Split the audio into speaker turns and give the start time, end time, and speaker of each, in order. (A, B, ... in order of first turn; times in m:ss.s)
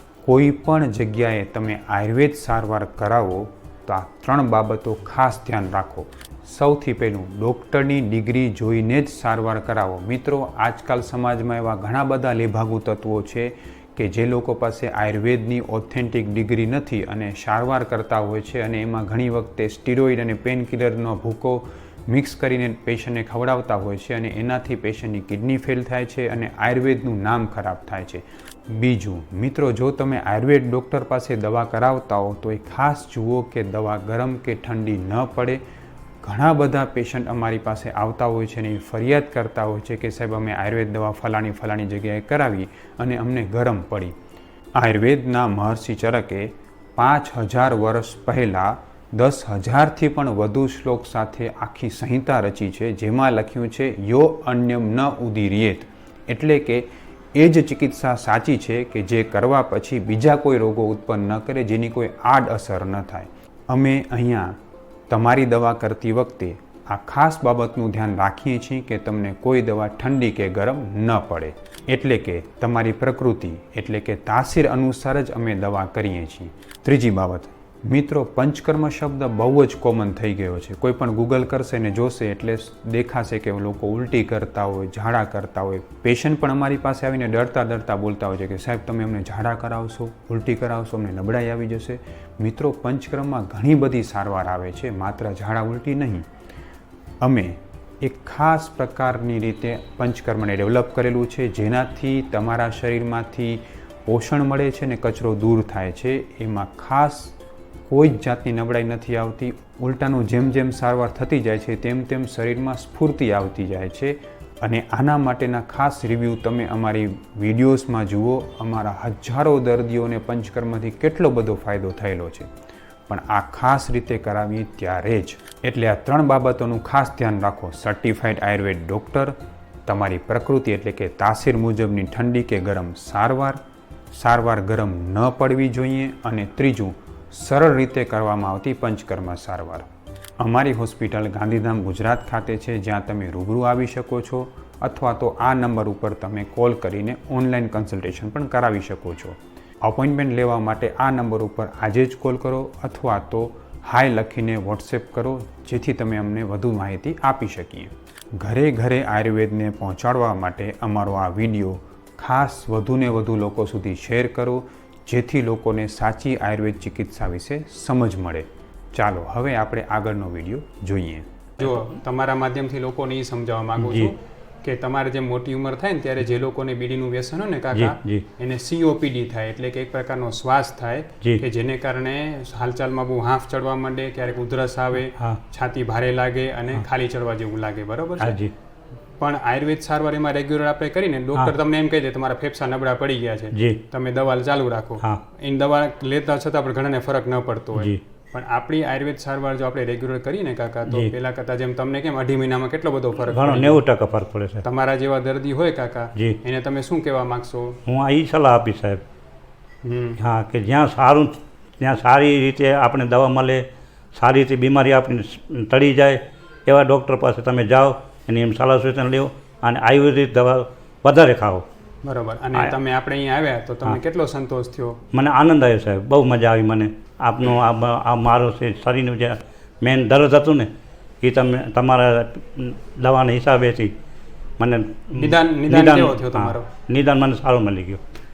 0:00.2-0:35.6 A
0:36.2-0:44.2 A
0:44.8-1:36.3 A
1:37.2-1:47.3 A
1:47.9-2:02.5 A
2:03.1-2:09.3 A
2:09.9-2:13.6 A
2:14.1-2:19.9 A
2:20.4-2:51.3 A
2:51.6-3:08.4 B
2:53.8-2:54.1 C
2:57.8-2:58.2 C
3:05.1-3:05.4 C
3:08.2-3:08.5 C
3:09.2-3:23.8 B
3:23.2-3:24.6 C
3:24.6-3:27.8 B
3:27.8-3:29.0 C
3:29.8-3:30.2 B
3:30.2-3:41.7 C
3:42.0-3:45.0 B
3:45.1-3:50.7 C
3:51.2-3:53.9 C
3:54.6-3:58.0 C
3:55.1-3:56.7 B